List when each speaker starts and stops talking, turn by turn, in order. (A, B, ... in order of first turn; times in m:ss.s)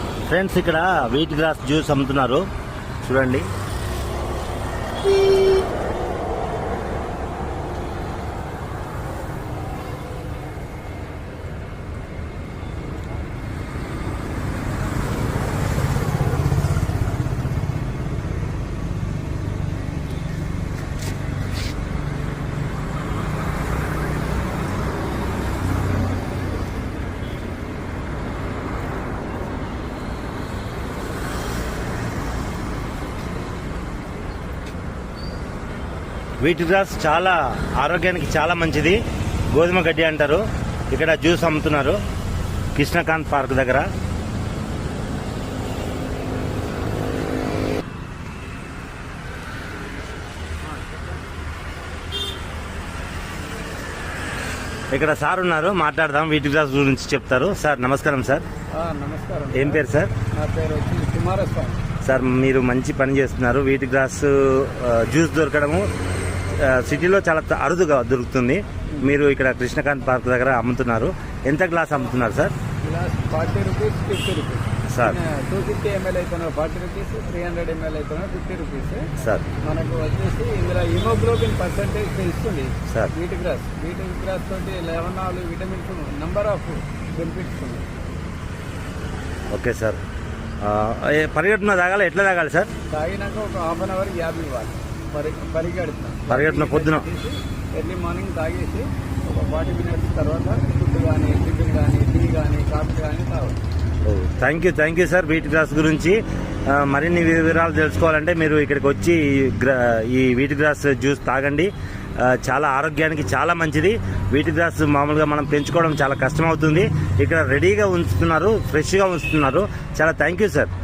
0:00.3-0:02.5 A
0:03.0-0:03.5 A
0:36.4-0:39.0 A
0:39.5-0:42.0 A
0:42.8-0:43.9 A
0:54.9-0:58.4 A
0:58.8-1:01.8 B
0:59.5-1:00.1 A
1:02.0-1:05.9 A
1:06.6-1:12.5 A
1:12.8-1:19.1 B
1:14.9-1:15.2 A
1:19.2-1:19.5 A
1:19.6-1:27.9 B
1:29.5-1:30.0 A
1:30.6-1:32.7 A
1:32.9-1:43.6 B
1:36.3-1:37.0 A
1:44.1-2:00.7 A